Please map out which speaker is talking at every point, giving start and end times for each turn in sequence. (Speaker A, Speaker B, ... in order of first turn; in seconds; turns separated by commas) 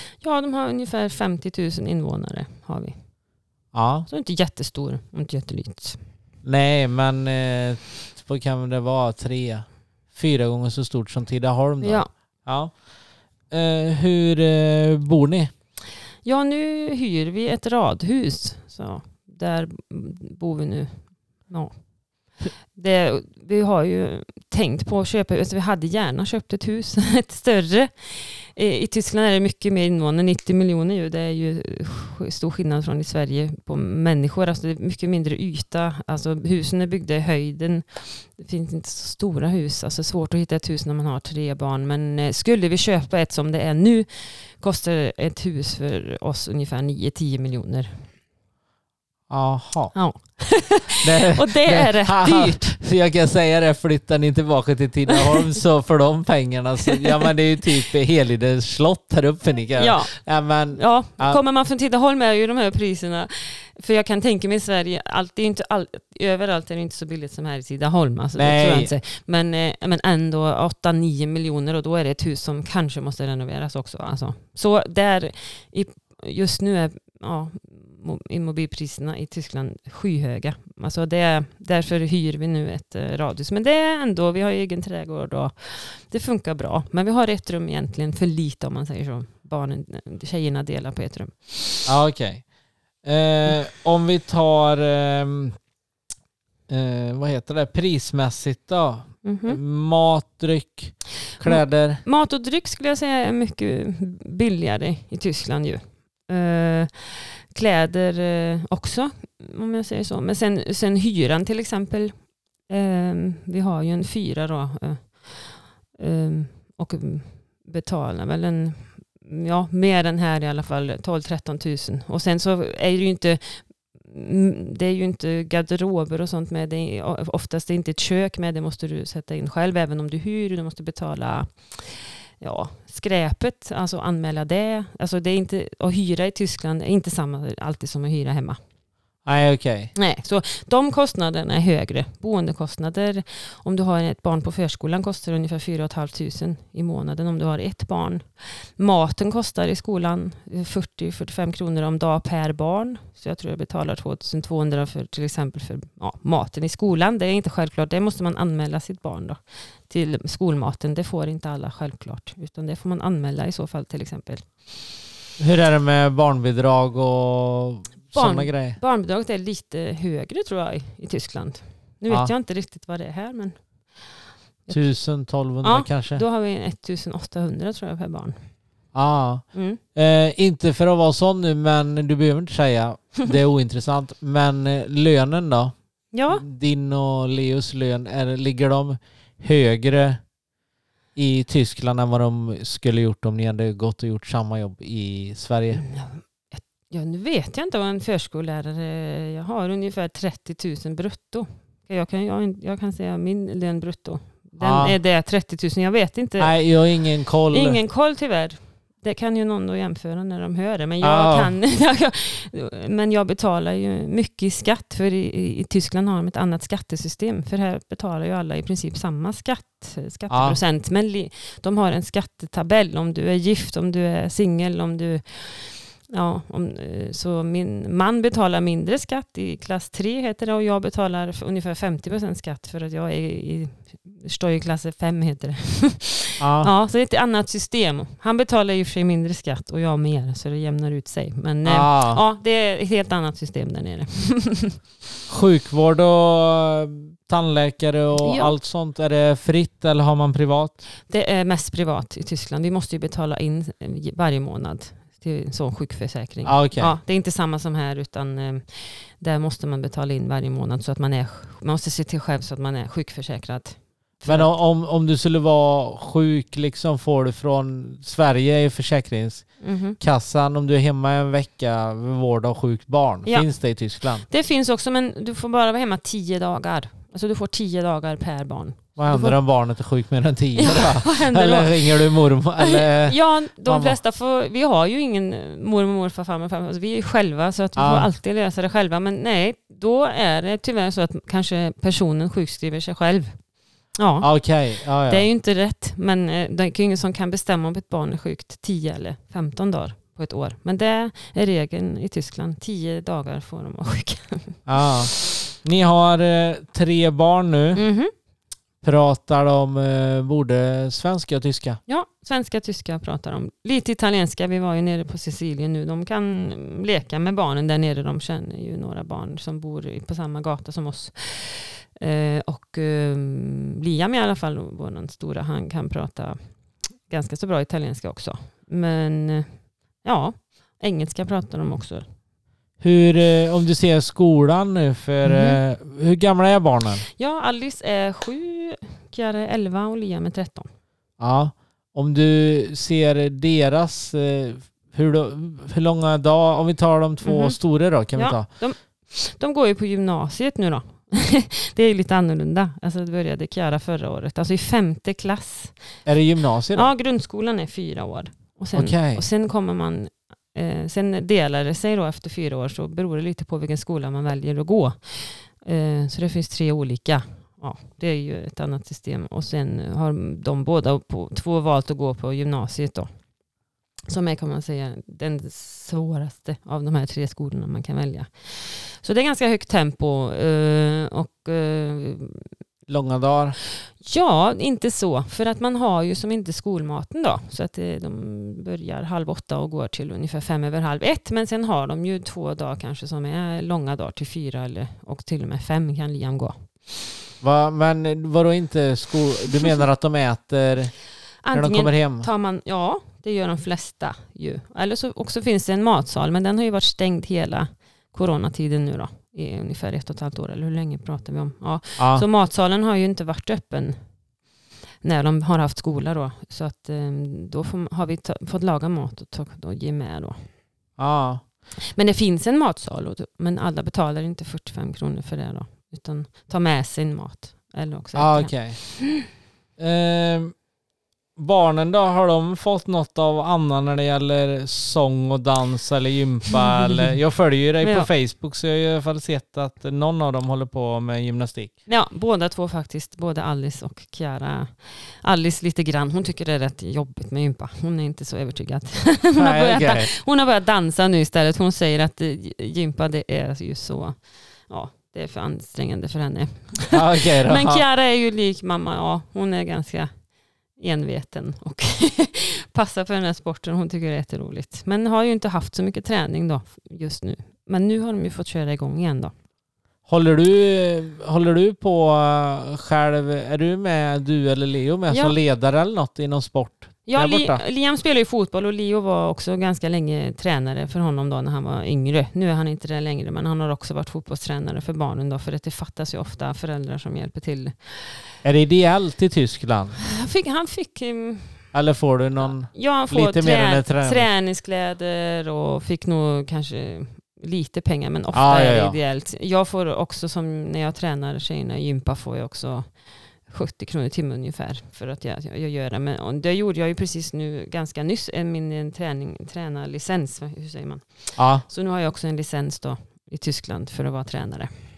Speaker A: 0.2-3.0, Speaker B: 3.7-4.1, Speaker A: 4.1-6.0, Speaker B: 6.4-12.9, Speaker A: 11.8-12.1, Speaker B: 13.5-15.5, Speaker A: 16.2-48.1, Speaker B: 49.3-50.4, Speaker A: 49.9-52.8, Speaker B: 51.0-61.4, Speaker A: 59.8-91.9, Speaker B: 68.3-68.9, Speaker B: 91.8-92.5, Speaker B: 93.0-95.6, Speaker B: 96.7-102.0, Speaker A: 99.2-99.6, Speaker A: 101.4-138.6, Speaker B: 139.2-139.9, Speaker A: 139.9-164.4, Speaker B: 165.4-168.8, Speaker A: 168.1-173.6, Speaker B: 174.7-176.2, Speaker A: 175.6-178.4, Speaker B: 178.9-185.8, Speaker A: 179.5-179.8, Speaker A: 186.1-186.4, Speaker B: 186.3-190.2, Speaker B: 191.2-195.8, Speaker A: 195.8-206.6, Speaker B: 204.6-204.9, Speaker B: 206.4-207.8, Speaker A: 207.5-244.8, Speaker B: 211.0-211.5, Speaker B: 220.3-220.6, Speaker B: 236.4-236.7, Speaker B: 241.6-242.2, Speaker B: 245.3-250.8, Speaker A: 248.2-248.6, Speaker A: 251.1-264.6, Speaker B: 256.4-256.9, Speaker B: 264.3-274.2, Speaker A: 269.6-270.0, Speaker A: 273.2-279.4, Speaker B: 278.9-284.0, Speaker A: 280.6-294.3, Speaker B: 287.8-288.1, Speaker B: 294.2-295.2, Speaker A: 295.1-304.6, Speaker B: 304.6-307.8, Speaker A: 307.7-308.1, Speaker B: 308.8-311.8, Speaker A: 311.9-332.1, Speaker B: 332.8-337.1, Speaker A: 335.2-335.6, Speaker A: 337.2-340.7, Speaker B: 341.2-348.5, Speaker A: 347.2-356.0, Speaker B: 356.1-356.9, Speaker A: 356.7-373.1, Speaker B: 358.7-359.2, Speaker A: 374.1-382.5, Speaker B: 382.9-383.6, Speaker A: 384.0-396.6, Speaker B: 397.4-402.3, Speaker A: 401.4-414.0, Speaker B: 412.0-412.2, Speaker A: 415.0-420.5, Speaker B: 421.0-421.4, Speaker A: 421.9-429.1, Speaker B: 428.1-429.0, Speaker B: 429.8-430.6, Speaker B: 431.4-441.7, Speaker A: 436.8-437.1, Speaker A: 437.8-438.1, Speaker A: 441.9-460.1, Speaker B: 449.4-450.1, Speaker B: 456.9-457.8, Speaker A: 460.8-469.3, Speaker B: 470.1-477.6, Speaker A: 475.1-475.4, Speaker A: 477.1-488.2, Speaker B: 488.4-490.0, Speaker A: 490.1-491.6, Speaker B: 491.7-494.3, Speaker A: 492.7-514.7, Speaker B: 498.3-499.0, Speaker B: 511.4-511.6